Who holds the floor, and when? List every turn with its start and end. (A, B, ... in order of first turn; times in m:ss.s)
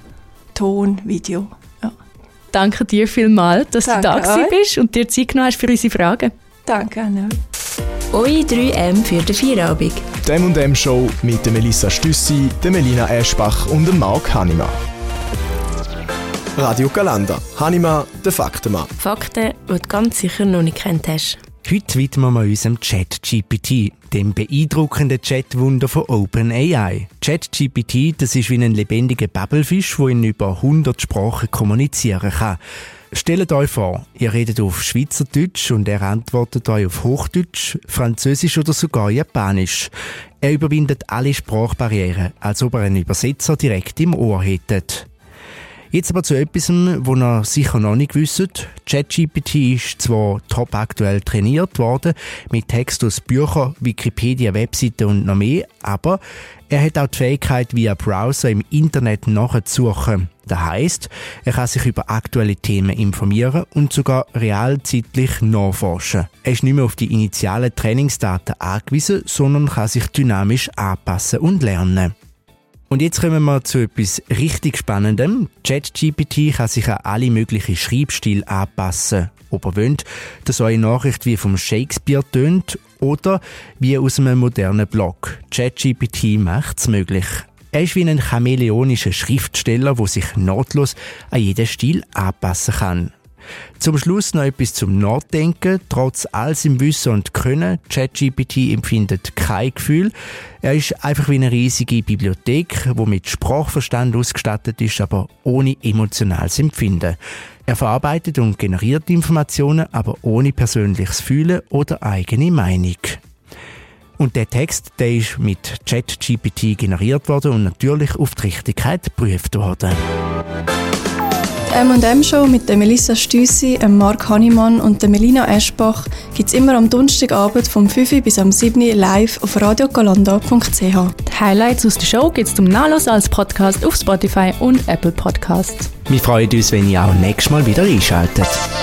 0:00.6-0:01.9 A
0:02.5-0:06.3 B
0:03.8-0:04.6 A
0:06.6-0:07.4 A
0:08.1-0:10.0 C
0:10.2-0:14.8 D
0:16.6-0:18.9 D
0:19.0-0:21.4 C
0:21.6-0:32.6 E
0:33.1-0:45.1 E
0:45.9-1:12.1 E
1:12.9-1:33.1 E
1:33.8-1:53.2 E
1:54.2-2:00.0 E
2:01.7-2:11.1 F
2:11.3-2:15.9 B
2:16.1-2:18.6 E